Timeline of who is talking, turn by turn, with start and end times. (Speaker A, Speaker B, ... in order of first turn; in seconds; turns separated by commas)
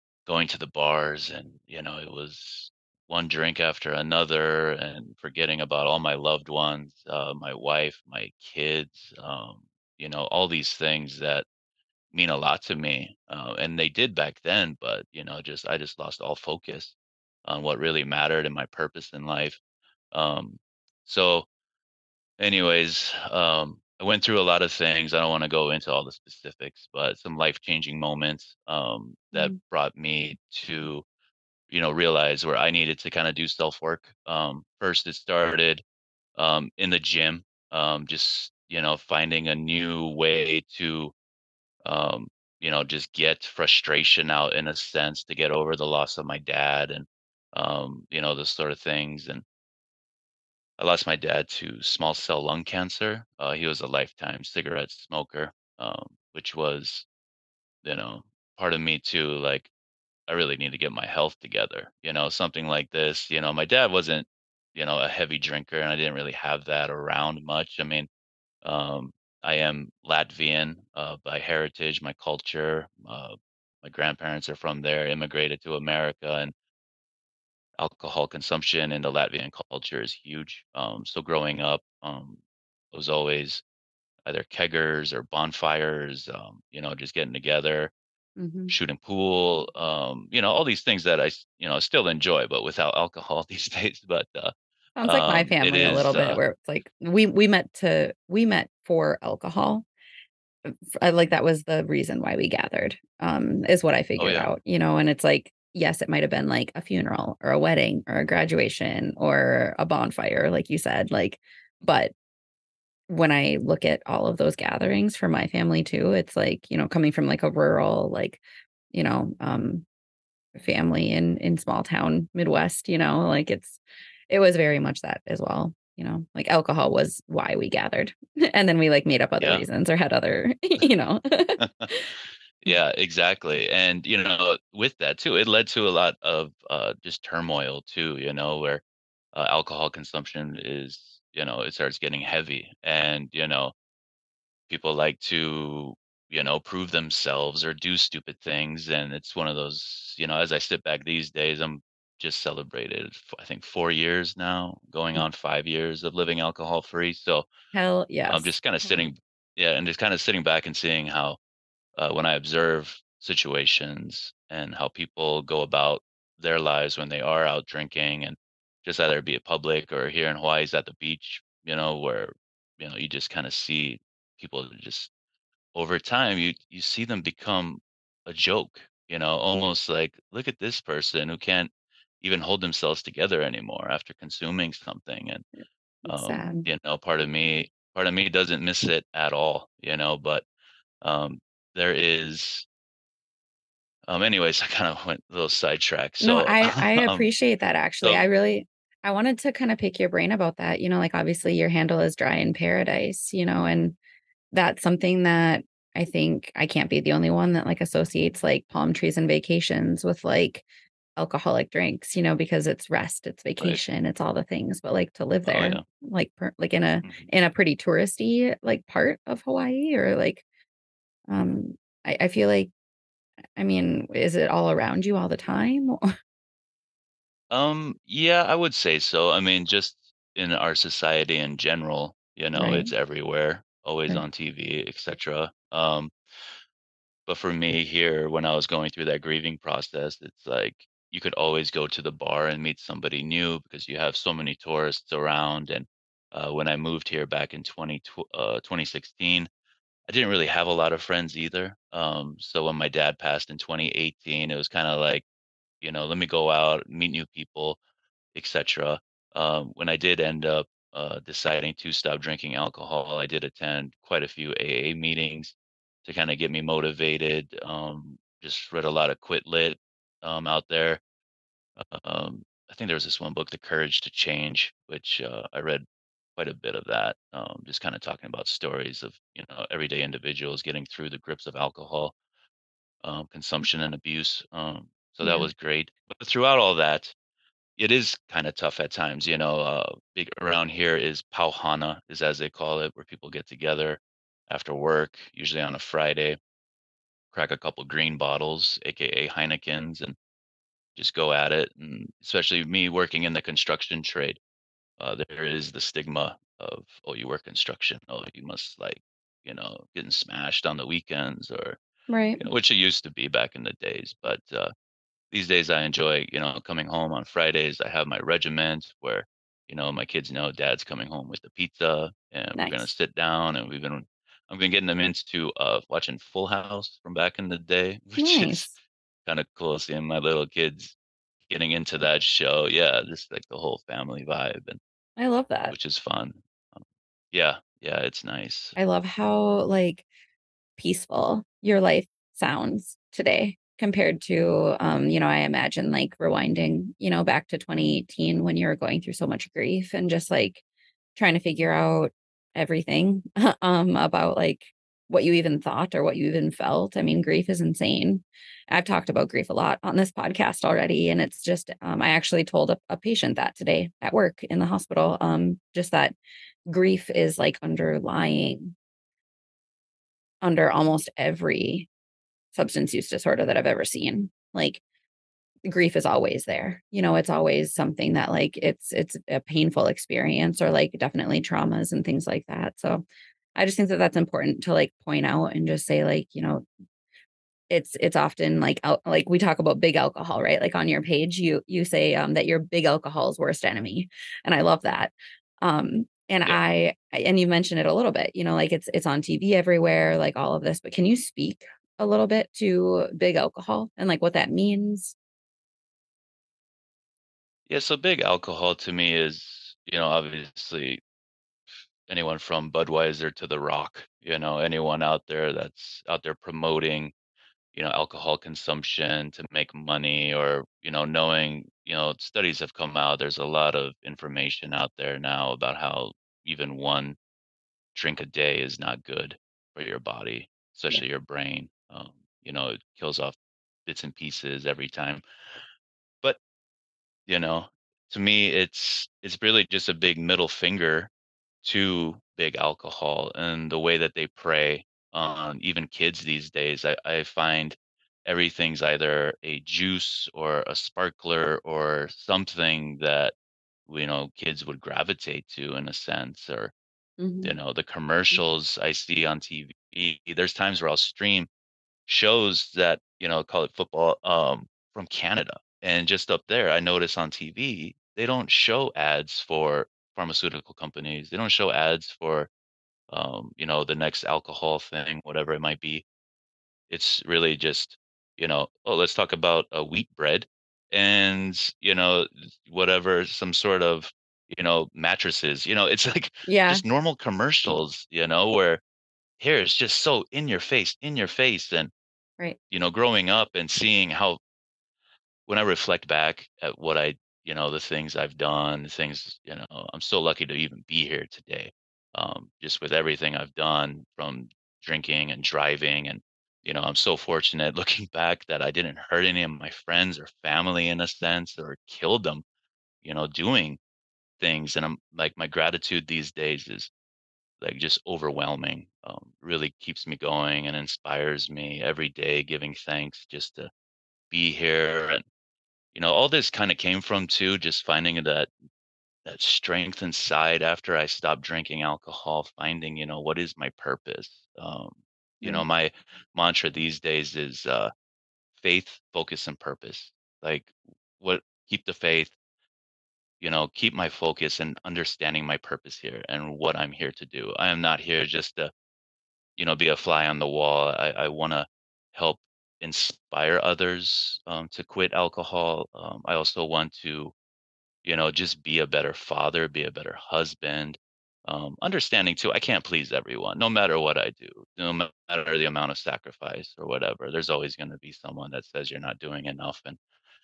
Speaker A: 0.3-11.5, Speaker A: 12.1-19.6, Speaker A: 20.1-21.5, Speaker A: 22.4-31.1, Speaker B: 29.3-29.6, Speaker A: 31.7-35.8, Speaker A: 36.4-41.1, Speaker A: 41.8-49.5, Speaker A: 50.8-57.1, Speaker A: 57.8-59.7, Speaker A: 60.3-68.1, Speaker A: 68.6-76.5, Speaker A: 77.8-83.6, Speaker A: 84.3-87.9, Speaker B: 88.4-88.8, Speaker A: 88.7-96.4, Speaker B: 95.0-99.9, Speaker B: 100.7-112.1, Speaker A: 104.2-104.5, Speaker B: 113.1-118.4, Speaker B: 118.9-119.9, Speaker B: 120.6-132.1, Speaker A: 129.4-129.7, Speaker A: 131.6-131.9, Speaker A: 132.6-143.7, Speaker A: 144.7-157.5, Speaker B: 157.7-158.6, Speaker A: 158.3-161.4, Speaker A: 162.0-175.1, Speaker A: 175.7-181.7, Speaker A: 182.2-185.4, Speaker B: 186.1-186.7, Speaker A: 186.1-190.5, Speaker A: 191.0-192.7, Speaker A: 194.1-197.3, Speaker B: 196.2-204.0, Speaker B: 204.5-210.7, Speaker B: 211.2-220.4, Speaker A: 215.5-215.8, Speaker A: 217.0-217.3, Speaker B: 221.3-222.7, Speaker B: 223.6-226.0, Speaker A: 227.5-236.1, Speaker B: 232.6-232.9, Speaker A: 237.3-249.5, Speaker A: 250.1-255.3, Speaker A: 255.8-257.8, Speaker A: 258.4-271.0, Speaker A: 271.8-275.9, Speaker A: 276.4-282.1, Speaker A: 283.0-287.1, Speaker B: 285.2-285.5, Speaker A: 287.8-296.4, Speaker A: 297.3-300.2, Speaker A: 301.0-304.4, Speaker A: 305.0-311.8, Speaker B: 312.1-312.4, Speaker A: 312.4-314.7, Speaker A: 315.3-328.7, Speaker B: 322.5-322.9, Speaker B: 328.2-328.8, Speaker A: 329.3-331.0, Speaker A: 331.5-334.8, Speaker B: 335.2-335.8, Speaker A: 335.7-338.8, Speaker B: 338.8-340.1, Speaker B: 340.8-350.6, Speaker B: 351.2-366.2, Speaker B: 366.7-368.8, Speaker B: 370.4-371.9, Speaker B: 372.5-374.8, Speaker B: 375.7-383.1, Speaker B: 383.6-386.7, Speaker B: 387.7-405.1, Speaker A: 407.7-411.0, Speaker A: 412.1-417.1, Speaker A: 417.7-427.2, Speaker A: 427.9-435.2, Speaker A: 437.3-441.1, Speaker A: 441.6-453.3, Speaker A: 453.9-456.7, Speaker B: 457.2-457.6, Speaker A: 457.4-461.5, Speaker A: 462.1-472.5, Speaker A: 473.1-476.1, Speaker A: 476.9-488.8, Speaker B: 486.5-486.9, Speaker A: 489.4-491.9, Speaker A: 492.7-494.4, Speaker A: 495.5-512.4, Speaker A: 513.0-513.8, Speaker A: 514.4-516.9, Speaker A: 517.6-523.7, Speaker A: 524.3-525.2, Speaker A: 525.9-528.5, Speaker A: 529.2-537.9, Speaker B: 535.4-535.7, Speaker A: 538.6-542.4, Speaker A: 543.4-548.7, Speaker A: 549.6-557.3, Speaker A: 558.0-570.0